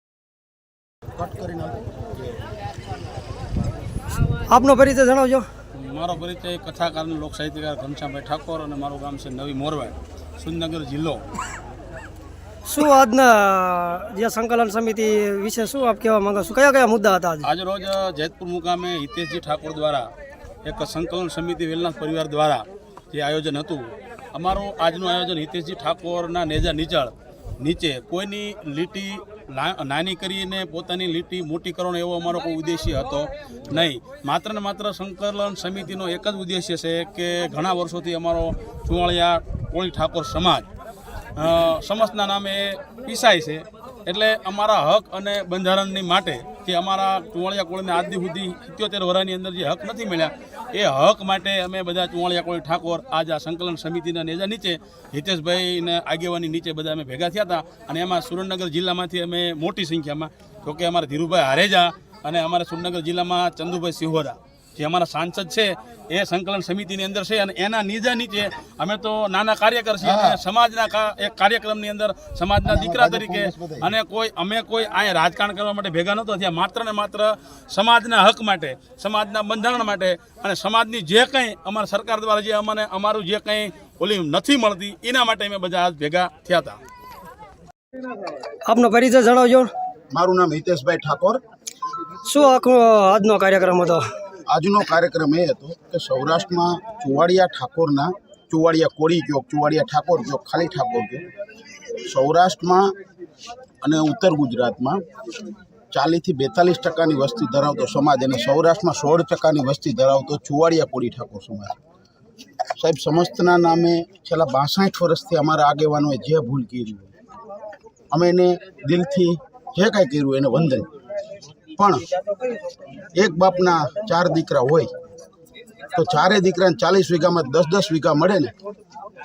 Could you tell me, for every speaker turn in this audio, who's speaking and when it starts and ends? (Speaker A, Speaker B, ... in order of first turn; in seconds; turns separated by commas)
Speaker A: 1.2-2.5, Speaker B: 4.5-5.5, Speaker C: 5.8-11.2, Speaker B: 12.7-17.5, Speaker C: 17.4-20.1, Speaker C: 20.6-40.7, Speaker C: 41.4-86.8, Speaker A: 70.0-70.4, Speaker A: 72.7-73.9, Speaker B: 88.7-89.7, Speaker A: 90.1-91.4, Speaker B: 92.2-94.1, Speaker A: 94.5-101.3, Speaker A: 102.1-102.9, Speaker A: 103.8-105.0, Speaker A: 105.9-111.8, Speaker A: 112.8-117.1, Speaker A: 118.1-120.9, Speaker A: 121.8-122.0, Speaker A: 123.2-124.9, Speaker A: 125.9-128.5